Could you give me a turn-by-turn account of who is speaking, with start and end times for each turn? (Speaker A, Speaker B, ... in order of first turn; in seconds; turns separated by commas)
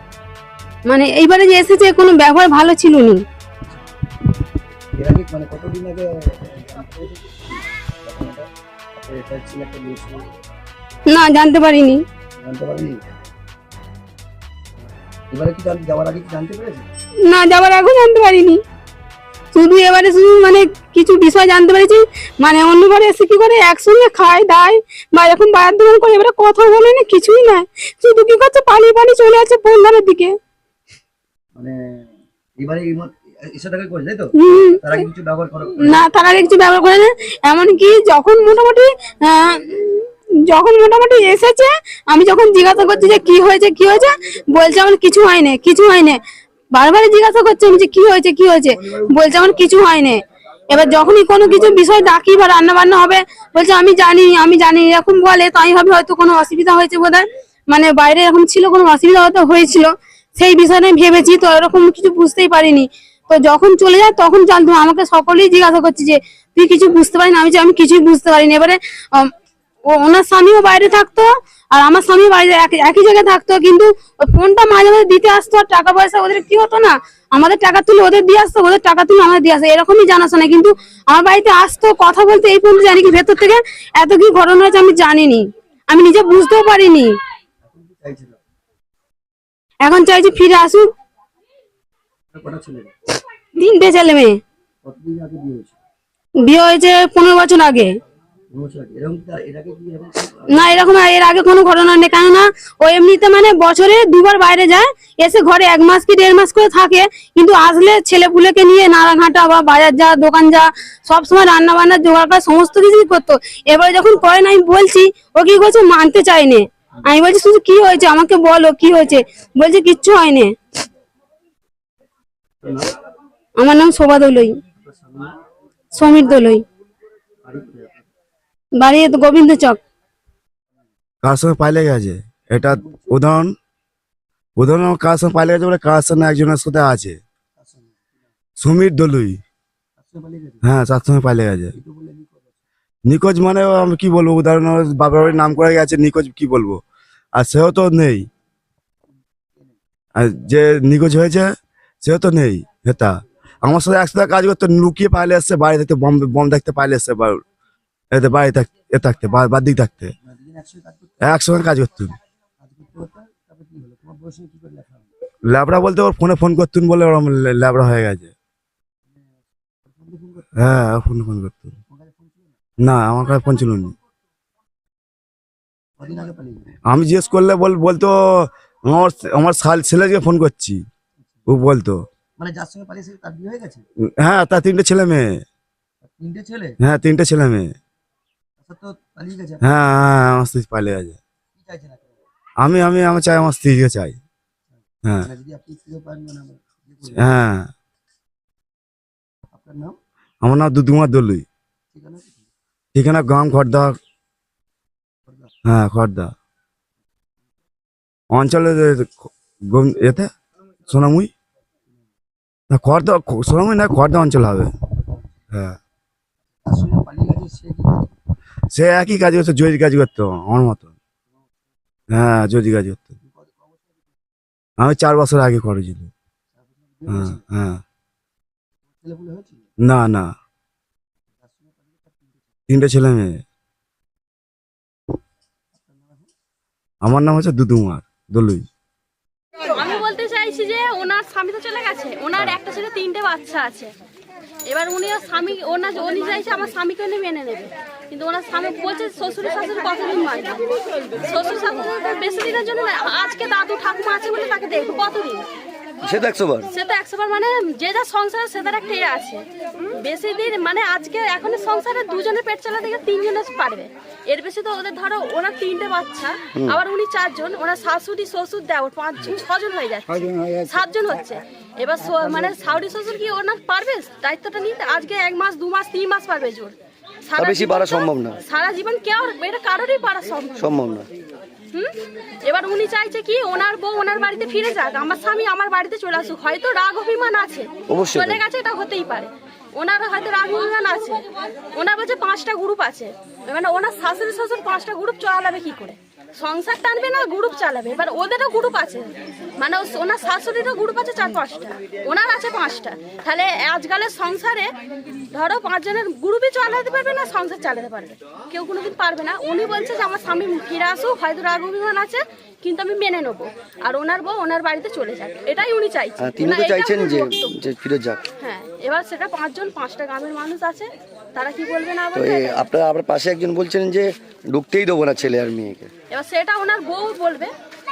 Speaker A: 0.9-3.2, Speaker B: 5.0-8.4, Speaker B: 9.0-10.3, Speaker A: 11.1-12.0, Speaker B: 12.4-13.0, Speaker B: 15.3-16.9, Speaker A: 17.3-18.6, Speaker A: 19.5-30.4, Speaker B: 31.6-32.0, Speaker B: 32.6-36.0, Speaker A: 34.4-34.9, Speaker A: 35.8-46.2, Speaker A: 46.7-69.3, Speaker A: 69.9-87.1, Speaker B: 87.7-88.4, Speaker A: 89.8-90.9, Speaker B: 92.3-92.9, Speaker A: 93.6-94.4, Speaker B: 94.8-95.8, Speaker A: 96.4-97.9, Speaker B: 98.5-100.8, Speaker A: 100.5-120.5, Speaker B: 122.6-123.0, Speaker A: 123.6-124.6, Speaker B: 124.9-125.4, Speaker A: 125.9-126.6, Speaker B: 127.5-128.1, Speaker A: 128.8-129.8, Speaker C: 131.2-133.5, Speaker B: 132.7-133.1, Speaker C: 134.6-137.2, Speaker B: 137.6-138.0, Speaker C: 138.6-139.4, Speaker B: 140.0-140.6, Speaker C: 140.6-141.8, Speaker B: 141.7-142.6, Speaker C: 143.1-146.8, Speaker C: 147.4-148.3, Speaker C: 150.2-151.5, Speaker C: 152.0-157.4, Speaker C: 158.1-160.1, Speaker B: 160.2-161.2, Speaker C: 161.2-162.2, Speaker B: 162.6-165.1, Speaker C: 165.5-168.3, Speaker B: 169.9-170.5, Speaker C: 170.6-171.8, Speaker B: 171.9-172.6, Speaker C: 172.8-173.9, Speaker B: 176.0-176.7, Speaker C: 176.9-180.8, Speaker C: 181.5-182.0, Speaker B: 182.4-183.8, Speaker C: 184.2-185.4, Speaker B: 186.0-186.8, Speaker C: 186.8-187.7, Speaker B: 188.6-189.7, Speaker C: 189.7-191.2, Speaker B: 191.6-192.2, Speaker C: 192.6-194.2, Speaker B: 195.2-197.4, Speaker C: 197.2-197.7, Speaker B: 199.5-200.0, Speaker C: 200.4-201.5, Speaker B: 201.9-202.5, Speaker C: 202.9-203.9, Speaker B: 205.3-205.5, Speaker C: 205.7-206.3, Speaker C: 208.3-210.3, Speaker C: 210.9-211.3, Speaker C: 212.7-214.7, Speaker C: 215.5-215.8, Speaker B: 216.7-218.1, Speaker C: 218.7-220.9, Speaker C: 222.1-223.1, Speaker B: 223.2-223.8, Speaker C: 224.8-226.1, Speaker B: 226.6-227.4, Speaker C: 227.1-227.8, Speaker B: 228.9-229.7, Speaker C: 229.8-230.3, Speaker B: 231.4-232.6, Speaker C: 232.7-233.4, Speaker B: 235.8-236.3, Speaker C: 237.0-238.7, Speaker D: 239.7-243.9, Speaker D: 244.7-255.4, Speaker E: 256.0-256.7, Speaker D: 256.7-276.8, Speaker D: 277.3-280.6, Speaker E: 277.4-278.4, Speaker E: 280.6-281.1, Speaker D: 281.7-304.7, Speaker E: 287.9-288.4, Speaker D: 305.3-317.6, Speaker E: 316.2-318.2, Speaker D: 318.4-322.6, Speaker E: 322.1-325.9, Speaker D: 326.1-327.5